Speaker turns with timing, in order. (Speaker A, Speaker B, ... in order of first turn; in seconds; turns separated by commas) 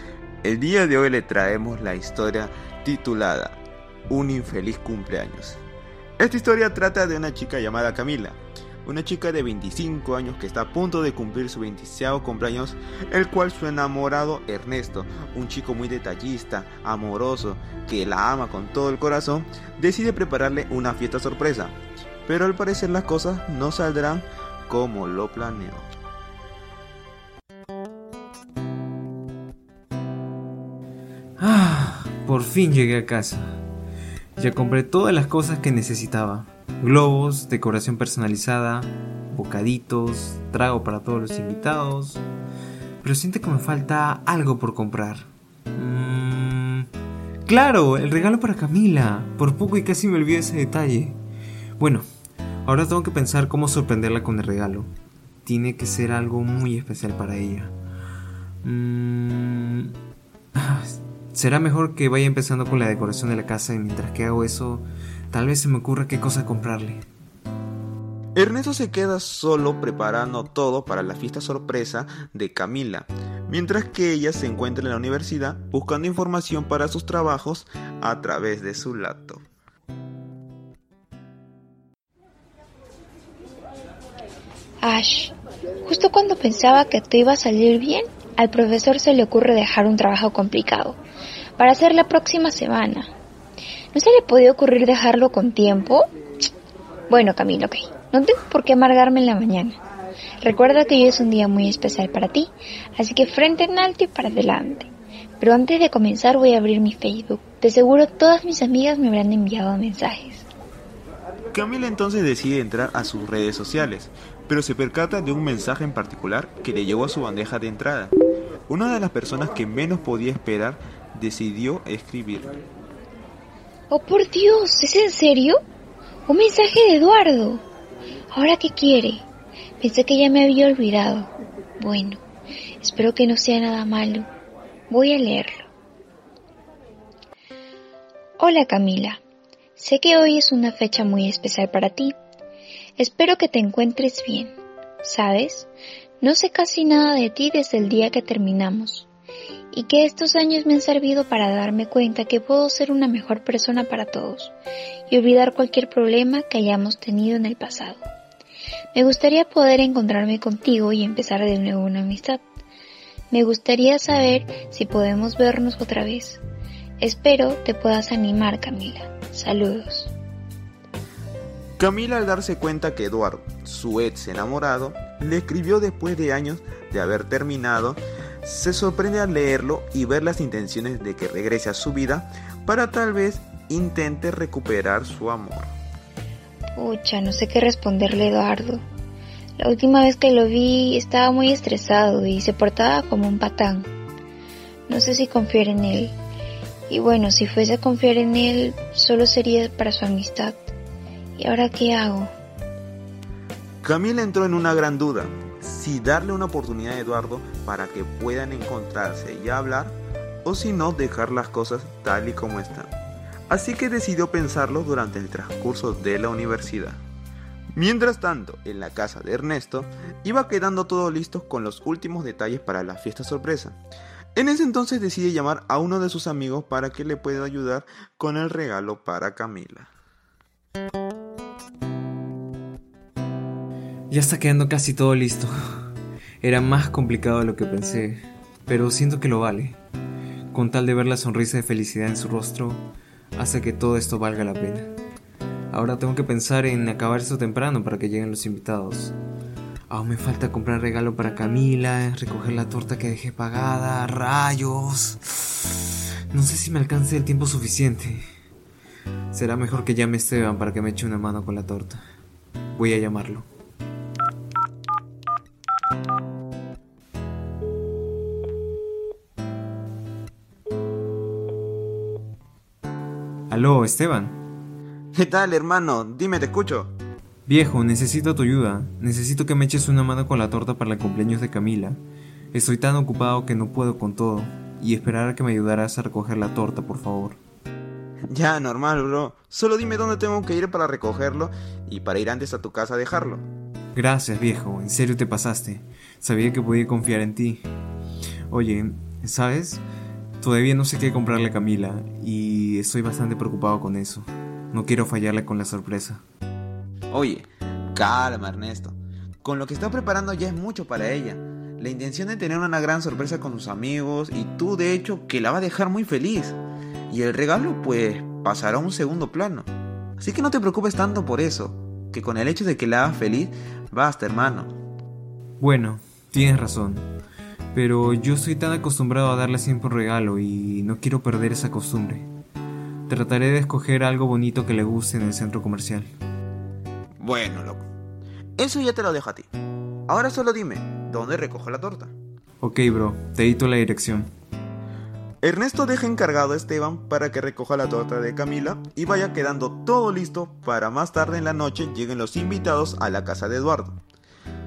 Speaker A: 0.4-3.6, Speaker A: 4.1-5.6, Speaker A: 6.2-25.9, Speaker B: 31.4-33.6, Speaker B: 34.4-42.2, Speaker B: 43.0-46.9, Speaker B: 47.5-51.2, Speaker B: 51.8-52.0, Speaker B: 52.6-54.9, Speaker B: 55.4-57.7, Speaker B: 58.6-59.9, Speaker B: 60.5-67.0, Speaker A: 68.3-79.4, Speaker C: 84.8-91.0, Speaker C: 91.6-93.1, Speaker C: 93.9-96.1, Speaker C: 97.1-99.8, Speaker C: 100.4-110.5, Speaker A: 111.5-118.1, Speaker A: 118.7-122.5, Speaker C: 123.9-125.6, Speaker C: 126.3-127.6, Speaker C: 128.3-129.2, Speaker C: 129.8-132.2, Speaker C: 132.8-134.3, Speaker C: 134.9-135.7, Speaker C: 138.4-139.2, Speaker C: 139.8-142.1, Speaker C: 143.0-145.7, Speaker C: 146.2-149.1, Speaker C: 149.7-154.5, Speaker C: 155.1-158.0, Speaker C: 158.9-162.4, Speaker C: 163.3-166.4, Speaker C: 167.0-170.1, Speaker A: 171.8-185.7, Speaker C: 186.8-188.8, Speaker C: 189.6-193.9, Speaker C: 194.9-196.1, Speaker C: 196.9-200.6, Speaker C: 201.4-202.3, Speaker A: 203.8-212.9, Speaker A: 213.5-217.0, Speaker A: 217.7-223.8, Speaker A: 224.3-229.9, Speaker B: 234.1-235.5, Speaker B: 236.4-239.8, Speaker B: 240.5-242.8, Speaker B: 243.3-244.9, Speaker B: 245.7-249.1, Speaker B: 249.9-255.4, Speaker B: 256.3-258.2, Speaker B: 259.3-262.0, Speaker B: 262.7-263.5, Speaker B: 273.5-274.4, Speaker A: 275.1-276.9, Speaker B: 277.4-282.0, Speaker B: 282.5-287.4, Speaker A: 288.3-293.4, Speaker B: 293.9-297.6, Speaker B: 298.5-299.8, Speaker B: 300.4-306.2, Speaker A: 307.1-316.6, Speaker A: 317.1-324.7, Speaker B: 325.6-327.1, Speaker B: 327.7-332.3, Speaker B: 333.1-336.1, Speaker A: 337.2-337.8, Speaker A: 338.6-339.5, Speaker A: 340.1-342.1, Speaker B: 342.6-344.3, Speaker A: 345.4-354.0